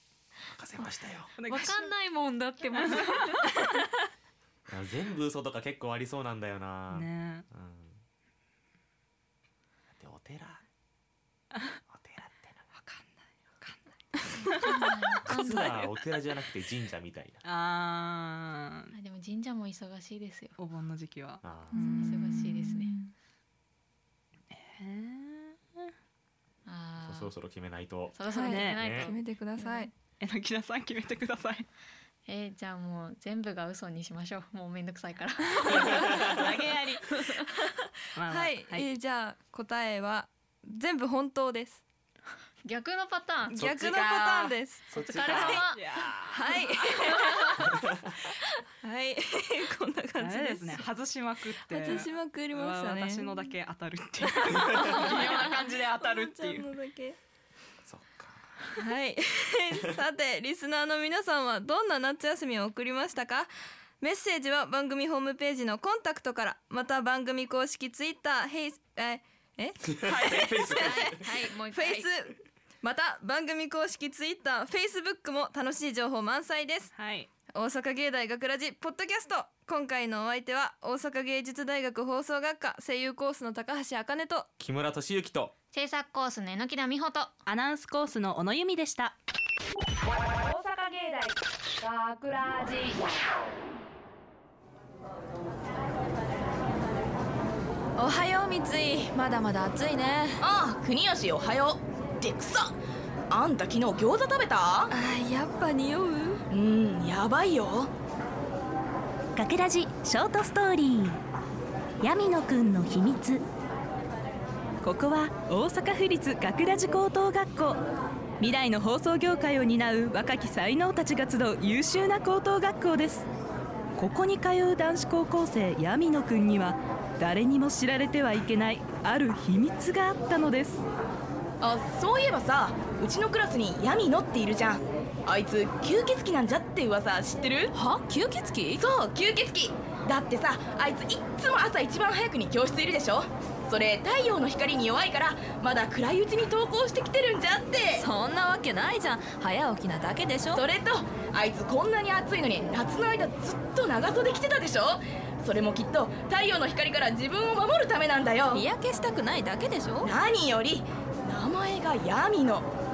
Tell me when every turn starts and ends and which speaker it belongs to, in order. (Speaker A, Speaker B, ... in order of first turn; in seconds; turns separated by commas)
Speaker A: 0.5-1.4, Speaker B: 1.4-1.9, Speaker C: 1.4-3.5, Speaker B: 2.8-3.3, Speaker A: 4.7-8.0, Speaker B: 6.9-7.5, Speaker A: 9.9-10.6, Speaker A: 11.9-12.6, Speaker B: 12.8-13.8, Speaker C: 14.4-15.9, Speaker A: 15.2-17.4, Speaker B: 17.4-18.9, Speaker C: 18.9-20.6, Speaker B: 20.6-22.5, Speaker A: 21.4-21.8, Speaker D: 21.8-23.1, Speaker C: 22.0-22.9, Speaker B: 24.5-25.9, Speaker C: 26.7-27.3, Speaker A: 27.0-28.2, Speaker C: 28.1-29.9, Speaker D: 28.3-29.9, Speaker B: 28.5-28.8, Speaker A: 28.8-29.1, Speaker B: 30.2-31.7, Speaker C: 32.3-37.4, Speaker A: 35.9-36.5, Speaker B: 36.2-37.0, Speaker B: 38.2-38.9, Speaker D: 38.3-41.8, Speaker C: 42.6-45.8, Speaker D: 43.5-45.5, Speaker A: 43.6-44.0, Speaker A: 44.9-45.7, Speaker B: 45.0-47.1, Speaker D: 46.3-47.8, Speaker C: 47.1-47.6, Speaker A: 47.7-48.1, Speaker D: 48.8-50.9, Speaker B: 50.2-56.7, Speaker D: 51.7-53.5, Speaker D: 54.3-57.2, Speaker A: 54.7-55.1, Speaker A: 57.9-58.5, Speaker D: 58.8-76.9, Speaker A: 69.9-71.2, Speaker C: 70.7-72.1, Speaker B: 76.9-77.3, Speaker D: 77.5-84.5, Speaker A: 84.6-85.5, Speaker C: 85.7-87.3, Speaker B: 87.5-89.2, Speaker E: 90.3-93.0, Speaker D: 98.0-100.4, Speaker F: 100.4-102.8, Speaker F: 103.3-104.9, Speaker D: 104.9-106.4, Speaker F: 106.5-107.9, Speaker G: 109.3-111.2, Speaker G: 112.0-113.5, Speaker G: 114.8-117.8, Speaker G: 118.4-123.3, Speaker G: 124.0-130.8, Speaker F: 131.6-137.8, Speaker D: 137.7-138.8, Speaker F: 138.7-148.1, Speaker D: 148.0-150.6, Speaker F: 150.5-158.7, Speaker D: 158.5-160.1, Speaker F: 160.0-162.7